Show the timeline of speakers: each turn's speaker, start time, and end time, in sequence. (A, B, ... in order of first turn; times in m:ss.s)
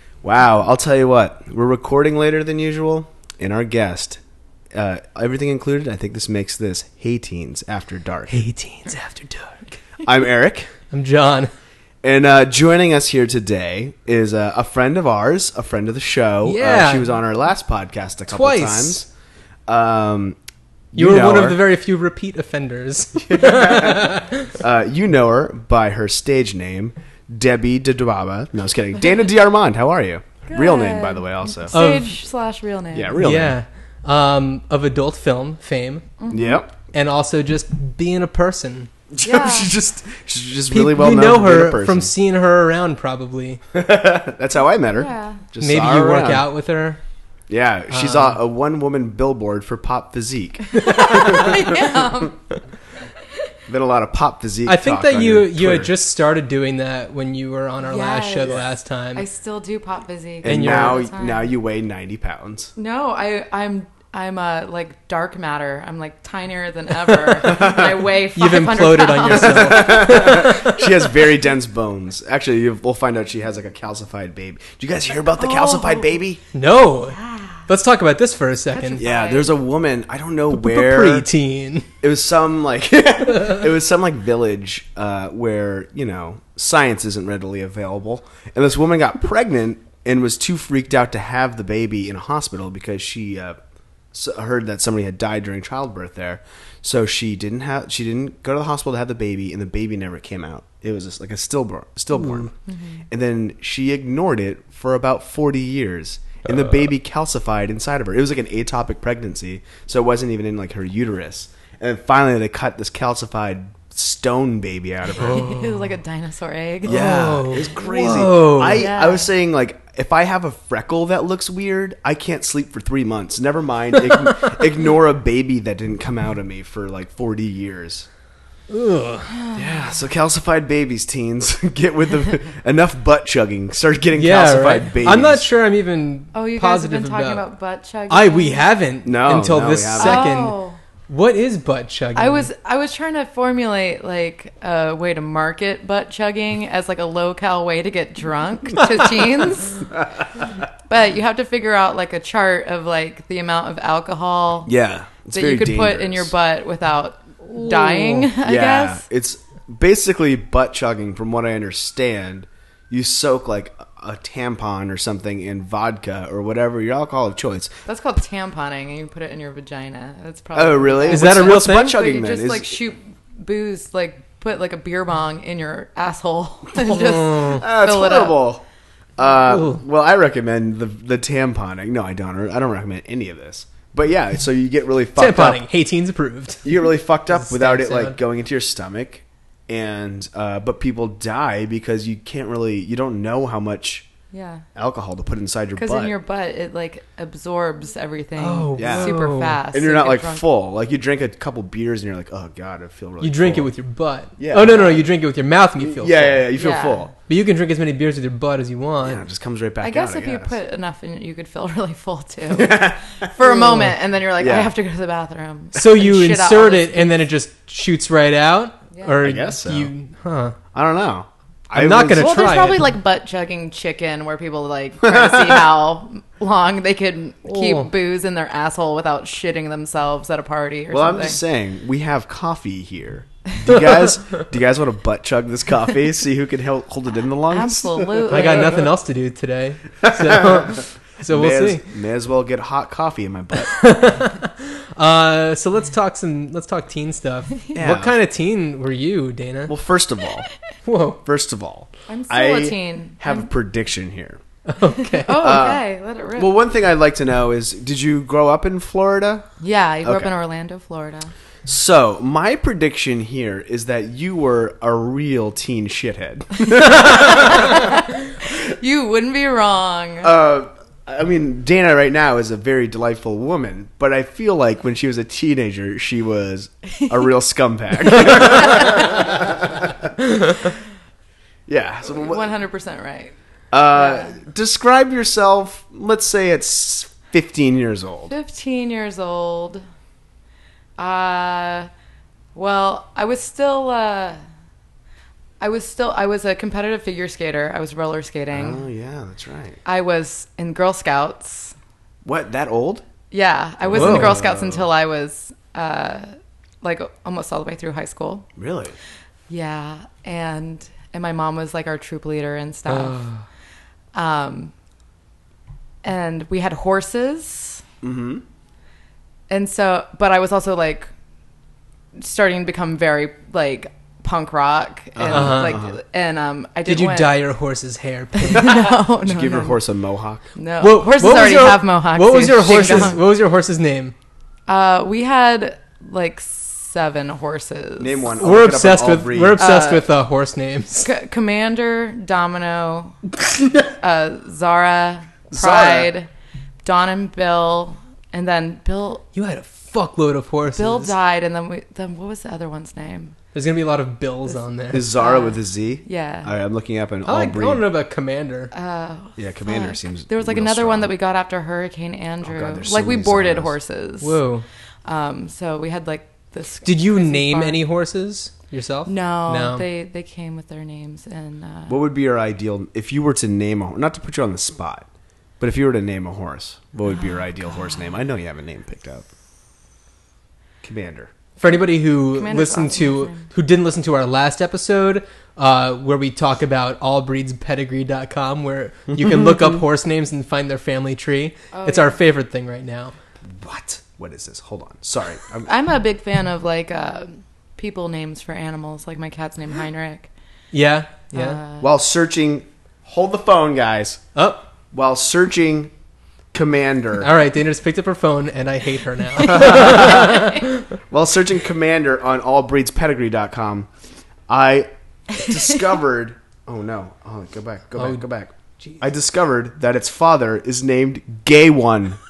0:00.2-0:04.2 A
0:04.7-0:08.4 A
0:08.3-0:09.6 B
0:10.0-0:10.7 A
0:10.9-0:11.5 B
0:12.0-0:19.1 A
0:16.4-0:17.1 B
0:18.3-0:19.0 B
0:19.7-0:20.4 A
0:20.9-0:21.6 A
0:20.9-0:24.5 B
0:23.3-0:31.8 A
0:30.5-0:33.2 C
0:31.7-0:32.1 B
0:32.9-0:33.6 A
0:33.2-0:36.1 B
0:36.2-0:36.6 C
0:36.3-0:36.7 A
0:36.8-0:38.9 B
0:39.1-0:42.1 A
0:39.2-0:39.7 C
0:40.7-0:43.6 B
0:43.7-0:46.5 A
0:45.0-0:45.4 C
0:45.6-0:47.0 B
0:47.5-0:52.2 A
0:47.9-0:48.4 B
0:50.8-0:52.4 C
0:53.7-0:55.9 A
0:54.6-0:59.2 B
0:57.8-0:58.6 C
0:59.1-1:01.4 C
1:00.4-1:02.7 A
1:00.4-1:01.0 B
1:02.8-1:10.5 C
1:07.4-1:07.8 B
1:07.4-1:07.9 A
1:08.3-1:10.9 B
1:09.4-1:16.4 A
1:15.4-1:16.1 C
1:16.5-1:19.0 B
1:17.2-1:17.6 C
1:18.7-1:19.5 C
1:19.0-1:21.3 A
1:20.5-1:21.9 B
1:22.0-1:33.6 A
1:34.1-1:42.5 A
1:42.2-1:42.5 B
1:42.7-1:43.0 C
1:43.1-1:55.4 A
1:55.2-1:55.9 B
1:55.2-1:57.0 C
1:56.8-2:08.1 A
1:56.8-1:58.9 B
1:58.6-1:59.2 C
2:08.7-2:09.4 B
2:09.6-2:15.5 A
2:14.1-2:17.4 B
2:16.3-2:18.6 C
2:18.1-2:20.6 B
2:19.0-2:20.3 A
2:20.0-2:20.8 C
2:21.1-2:22.5 B
2:22.1-2:29.8 C
2:30.0-2:30.4 A
2:30.9-2:34.7 C
2:34.6-2:36.3 A
2:35.3-2:39.0 C
2:37.5-2:38.3 B
2:38.4-2:47.7 A
2:47.8-2:58.4 C
2:50.5-2:52.8 A
2:51.1-2:52.0 B
2:56.9-2:57.6 B
2:57.5-2:58.6 A
2:59.2-3:05.6 A
2:59.4-2:59.8 B
3:05.2-3:06.7 B
3:06.6-3:14.1 A
3:07.3-3:08.2 B
3:14.3-3:14.6 C
3:14.7-3:16.1 A
3:15.8-3:20.4 C
3:18.4-3:19.6 B
3:18.8-3:19.1 A
3:19.7-3:23.7 A
3:23.2-3:26.5 B
3:24.4-3:25.0 A
3:25.8-3:27.1 A
3:26.6-3:27.1 C
3:27.2-3:29.2 B
3:29.0-3:30.5 A
3:29.8-3:37.2 C
3:32.5-3:33.3 A
3:34.4-3:34.7 A
3:35.8-3:40.6 B
3:39.2-3:39.9 A
3:40.7-3:42.4 A
3:41.7-3:42.9 B
3:42.2-3:51.4 C
3:45.0-3:45.6 A
3:47.5-3:47.9 B
3:50.9-3:58.5 A
3:57.5-3:58.9 C
3:58.3-4:01.8 B
4:00.0-4:00.7 A
4:01.3-4:03.8 A
4:03.7-4:09.7 B
4:07.7-4:08.1 A
4:09.7-4:10.5 A
4:10.8-4:11.2 B
4:11.2-4:14.4 A
4:12.1-4:13.5 C
4:14.7-4:15.6 B
4:15.1-4:16.5 C
4:15.4-4:15.8 A
4:16.4-4:19.5 A
4:19.6-4:21.3 C
4:20.0-4:20.3 A
4:21.6-4:27.8 A
4:26.7-4:30.3 C
4:30.2-4:40.1 A
4:38.4-4:38.9 C
4:41.7-4:42.5 A
4:42.0-4:43.3 C
4:43.7-4:48.3 A
4:43.9-4:44.3 C
4:48.3-4:49.8 C
4:51.0-4:51.9 C
4:52.5-4:54.4 C
4:55.6-4:58.8 C
4:58.5-4:59.8 A
4:59.8-5:01.7 C
5:02.2-5:03.0 A
5:03.3-5:08.5 C
5:03.8-5:04.9 A
5:03.9-5:04.4 B
5:08.6-5:09.0 A
5:09.5-5:13.2 C
5:12.9-5:13.4 B
5:14.1-5:14.7 C
5:16.0-5:17.8 C
5:18.0-5:18.4 A
5:19.5-5:21.1 C
5:22.2-5:27.3 C
5:25.1-5:25.9 A
5:25.3-5:25.8 B
5:26.8-5:28.8 B
5:28.4-5:29.8 C
5:28.7-5:30.5 A
5:30.6-5:33.2 C
5:30.8-5:34.1 B
5:32.6-5:33.2 A
5:34.7-5:38.2 C
5:38.0-5:39.6 A
5:38.4-5:41.1 B
5:39.6-5:40.1 C
5:41.0-5:43.2 C
5:44.0-5:46.3 C
5:45.5-5:46.1 A
5:46.8-5:49.2 C
5:49.3-5:51.1 B
5:50.7-5:53.4 C
5:53.5-5:55.1 B
5:54.9-5:57.8 A
5:54.9-5:56.5 C
5:57.2-5:58.7 B
5:58.7-6:04.4 C
5:59.4-6:01.1 A
6:02.4-6:03.7 A
6:04.2-6:04.6 B
6:05.0-6:07.8 C
6:06.8-6:09.8 B
6:09.1-6:12.0 C
6:11.9-6:15.0 A
6:15.6-6:19.2 A
6:17.1-6:17.9 C
6:20.8-6:21.3 A
6:21.6-6:33.1 B
6:22.3-6:23.5 C
6:31.7-6:32.2 C
6:33.4-6:35.7 A
6:35.7-6:40.3 C
6:40.7-6:41.6 B
6:41.3-6:41.8 C
6:41.8-6:44.2 A
6:44.3-6:44.6 B
6:44.9-6:45.9 A
6:46.5-6:47.3 A
6:47.2-6:50.8 B
6:49.4-6:49.7 C
6:49.5-6:50.4 A
6:51.1-6:53.9 A
6:54.5-7:02.2 A
6:58.0-6:58.2 B